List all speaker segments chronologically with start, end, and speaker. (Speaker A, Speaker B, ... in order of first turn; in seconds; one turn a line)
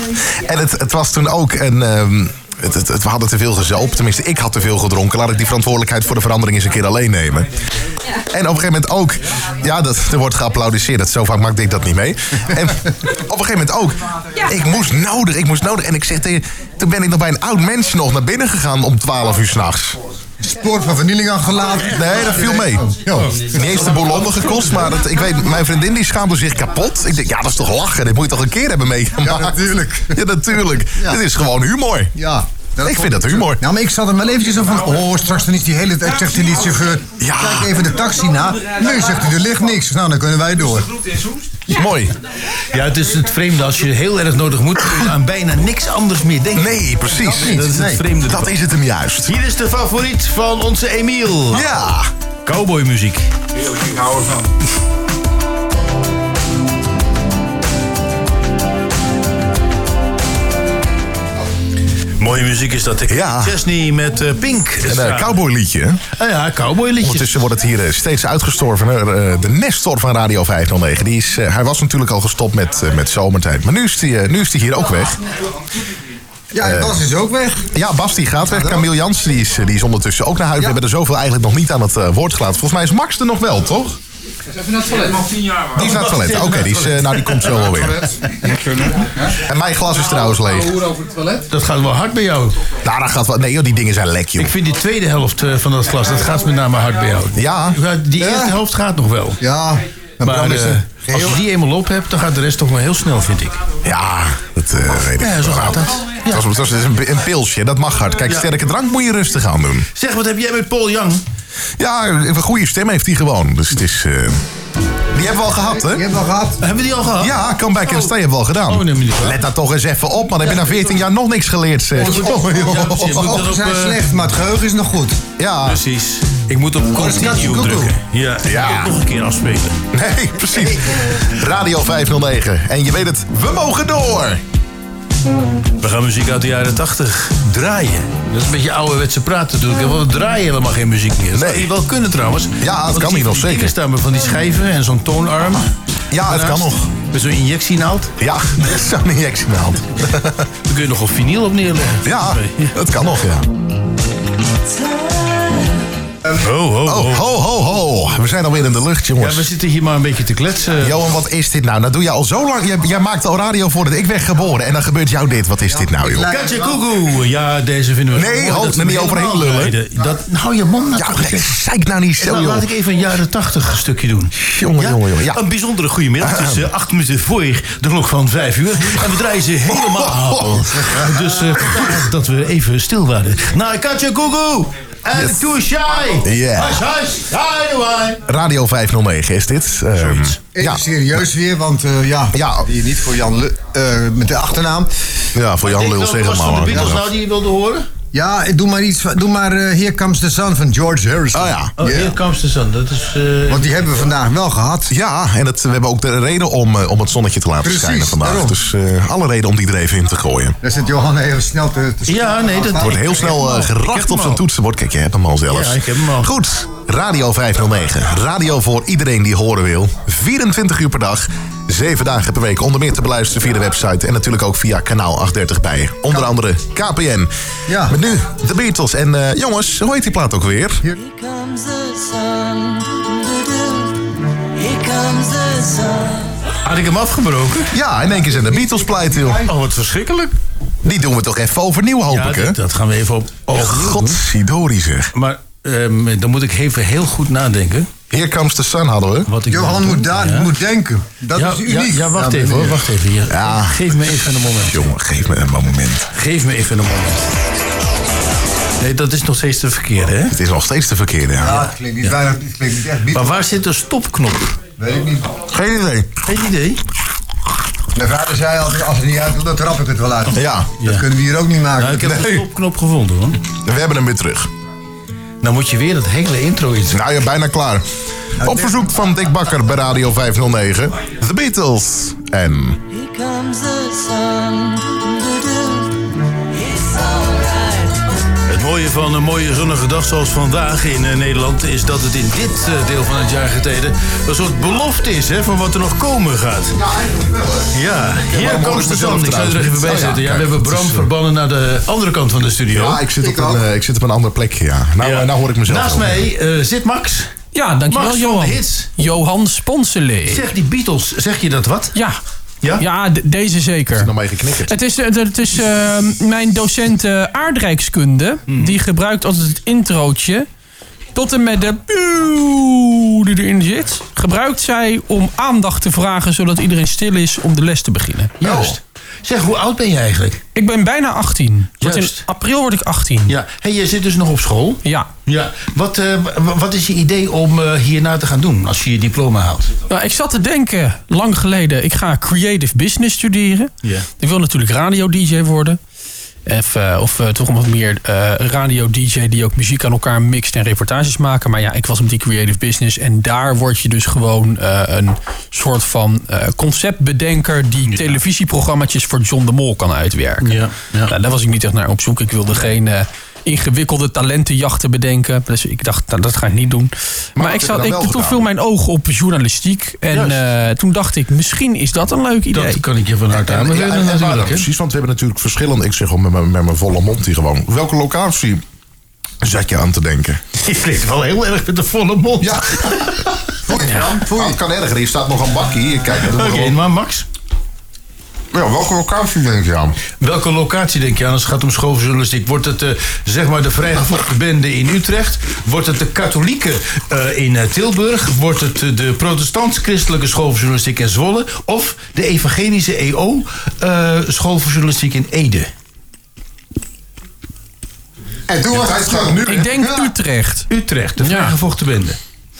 Speaker A: 0.2-7.5
Speaker A: 8.3-20.0
Speaker B: 20.4-23.4
Speaker A: 21.8-32.1
Speaker C: 22.1-22.5
Speaker C: 23.1-24.3
Speaker B: 29.2-30.2
Speaker B: 32.2-40.9
Speaker A: 32.8-33.6
Speaker A: 37.2-37.8
Speaker D: 38.9-39.2
Speaker D: 40.6-41.6
Speaker A: 41.7-42.1
Speaker C: 42.7-48.6
Speaker A: 46.5-47.6
Speaker B: 47.1-48.0
Speaker A: 48.2-49.4
Speaker C: 49.2-51.7
Speaker A: 51.5-52.1
Speaker C: 52.5-53.3
Speaker D: 53.5-54.5
Speaker C: 62.2-65.4
Speaker A: 63.1-63.6
Speaker A: 64.8-66.0
Speaker C: 66.1-67.5
Speaker A: 67.0-75.2
Speaker B: 76.5-77.7
Speaker A: 76.6-77.0
Speaker A: 77.7-84.0
Speaker B: 78.5-78.8
Speaker D: 84.5-86.0
Speaker A: 85.7-88.1
Speaker C: 85.8-87.5
Speaker D: 87.8-89.3
Speaker A: 89.4-90.8
Speaker D: 90.1-91.5
Speaker C: 91.5-92.6
Speaker A: 92.8-94.6
Speaker C: 94.4-99.4
Speaker A: 97.3-97.8
Speaker B: 98.2-98.5
Speaker B: 99.4-101.4
Speaker C: 100.2-103.6
Speaker A: 103.8-109.9
Speaker C: 105.2-106.5
Speaker C: 108.3-108.5
Speaker C: 109.9-111.2
Speaker A: 111.8-114.4
Speaker A: 115.1-116.0
Speaker B: 115.8-116.6
Speaker C: 116.6-118.1
Speaker A: 117.2-123.4
Speaker C: 118.7-119.4
Speaker C: 122.0-124.1
Speaker B: 122.0-125.2
Speaker A: 125.4-125.8
Speaker C: 125.6-129.8
Speaker B: 126.9-127.9
Speaker A: 128.4-129.0
Speaker A: 129.9-134.4
Speaker C: 135.8-148.1
Speaker A: 141.3-141.7
Speaker A: 142.6-143.7
Speaker A: 146.1-146.9
Speaker A: 148.2-150.5
Speaker C: 150.7-152.8
Speaker A: 152.0-153.5
Speaker C: 156.4-157.4
Speaker A: 156.8-159.5
Speaker C: 159.2-161.1
Speaker A: 160.8-166.3
Speaker B: 165.7-166.8
Speaker C: 166.3-171.6
Speaker A: 168.1-169.8
Speaker A: 170.9-172.7
Speaker C: 172.2-188.2
Speaker A: 174.4-175.4
Speaker A: 176.2-176.7
Speaker A: 179.7-181.0
Speaker A: 185.1-185.5
Speaker A: 186.2-186.9
Speaker A: 188.3-190.8
Speaker C: 189.9-190.4
Speaker B: 190.5-194.9
Speaker A: 192.3-192.7
Speaker A: 195.3-197.1
Speaker C: 195.6-197.9
Speaker B: 198.1-202.2
Speaker A: 201.3-201.7
Speaker C: 201.8-203.9
Speaker B: 203.5-204.9
Speaker A: 204.9-210.6
Speaker B: 207.6-208.5
Speaker B: 210.6-213.2
Speaker C: 212.1-214.4
Speaker A: 212.8-227.3
Speaker C: 215.5-216.3
Speaker B: 227.7-228.0
Speaker A: 227.9-230.8
Speaker E: 231.2-232.6
Speaker E: 234.6-236.1
Speaker C: 236.6-237.7
Speaker A: 237.7-239.5
Speaker B: 239.2-239.4
Speaker C: 239.4-240.3
Speaker A: 240.8-242.6
Speaker C: 242.1-244.2
Speaker A: 243.5-245.1
Speaker C: 245.1-247.9
Speaker A: 248.1-249.3
Speaker C: 249.3-250.5
Speaker B: 249.5-252.9
Speaker C: 251.3-254.8
Speaker A: 253.3-256.1
Speaker C: 256.1-257.3
Speaker C: 258.8-260.4
Speaker A: 260.3-261.7
Speaker B: 261.4-263.4
Speaker C: 263.1-264.6
Speaker B: 264.8-265.4
Speaker A: 265.5-266.1
Speaker C: 266.2-266.8
Speaker B: 267.9-272.2
Speaker A: 270.3-270.7
Speaker C: 270.8-271.0
Speaker C: 271.8-273.4
Speaker A: 272.0-272.4
Speaker A: 273.6-274.5
Speaker C: 275.4-277.0
Speaker A: 276.9-277.9
Speaker A: 278.4-282.8
Speaker B: 278.4-278.8
Speaker E: 283.1-285.1
Speaker E: 286.7-287.5
Speaker C: 288.5-296.8
Speaker A: 296.8-301.1
Speaker C: 297.7-303.0
Speaker A: 302.7-306.3
Speaker B: 303.2-303.6
Speaker C: 305.0-307.3
Speaker F: 307.5-310.5
Speaker C: 307.9-308.9
Speaker C: 310.2-312.0
Speaker F: 312.8-314.1
Speaker A: 313.9-314.8
Speaker F: 314.7-320.5
Speaker C: 318.5-318.8
Speaker F: 321.1-328.3
Speaker C: 328.4-330.4
Speaker A: 328.4-328.8
Speaker F: 330.6-333.3
Speaker C: 331.8-332.2
Speaker C: 333.3-339.7
Speaker F: 339.9-345.8
Speaker F: 346.5-372.8
Speaker C: 357.9-358.2
Speaker C: 360.4-361.1
Speaker A: 367.4-368.4
Speaker C: 370.1-370.4
Speaker C: 372.5-374.7
Speaker A: 373.3-378.6
Speaker A: 379.4-380.4
Speaker C: 380.6-383.2
Speaker A: 382.4-386.8
Speaker B: 383.7-384.6
Speaker C: 386.2-387.3
Speaker A: 388.5-390.0
Speaker C: 390.2-405.7
Speaker B: 408.5-410.1
Speaker A: 408.7-409.8
Speaker F: 409.4-410.7
Speaker C: 410.7-412.2
Speaker F: 411.2-411.6